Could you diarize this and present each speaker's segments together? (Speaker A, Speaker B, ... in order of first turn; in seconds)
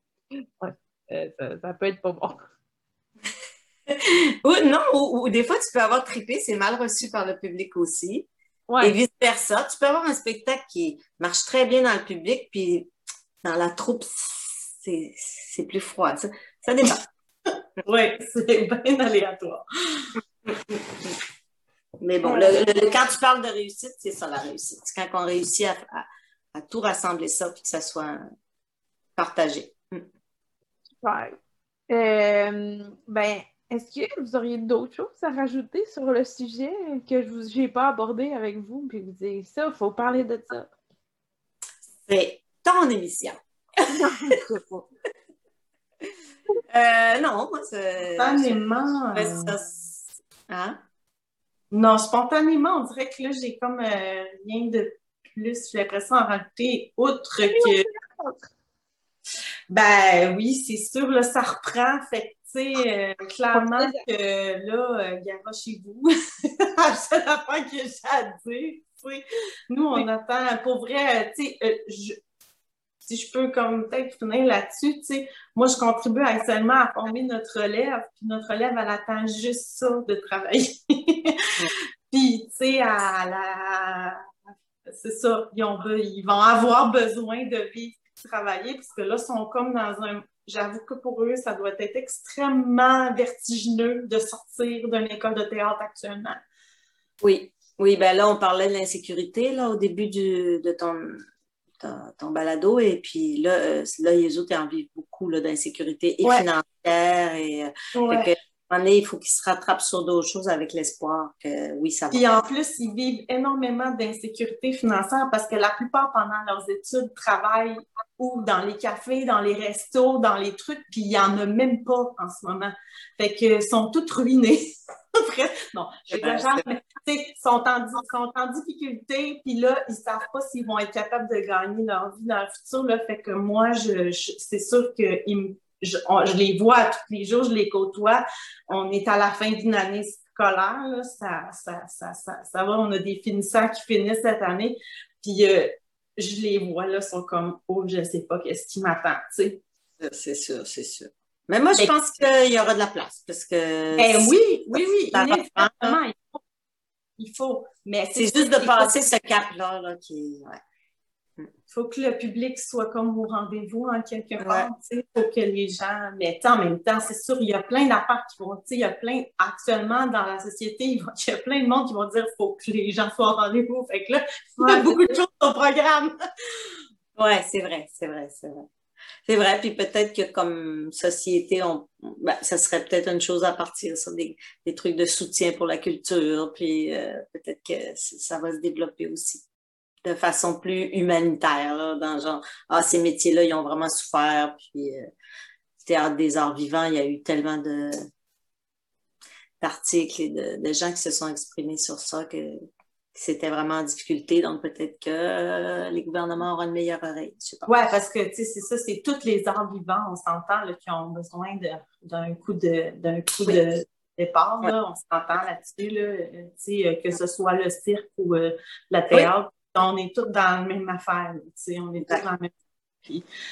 Speaker A: 0.3-2.4, 8.7-9.0, 31.0-31.4, 31.9-40.7, 43.8-44.9, 57.5-58.5, 63.5-64.0
Speaker B: 3.9-8.3, 8.8-12.9, 13.4-17.0, 20.4-21.1, 22.0-28.2, 29.1-30.1, 42.0-43.4, 46.7-48.6, 49.1-50.8, 97.2-101.2, 101.8-112.3, 126.1-126.6, 150.0-156.0, 158.1-160.6, 164.4-164.7, 174.6-175.0, 177.2-178.6, 179.2-189.4, 190.0-195.1, 195.8-198.0, 199.6-202.6, 203.1-207.7
Speaker C: 17.8-20.1, 48.1-49.5, 51.7-57.8, 59.7-72.2, 73.0-84.2, 84.9-96.4, 107.9-108.3, 112.1-149.6, 154.0-156.4, 157.2-159.0, 161.7-176.1, 207.7-222.5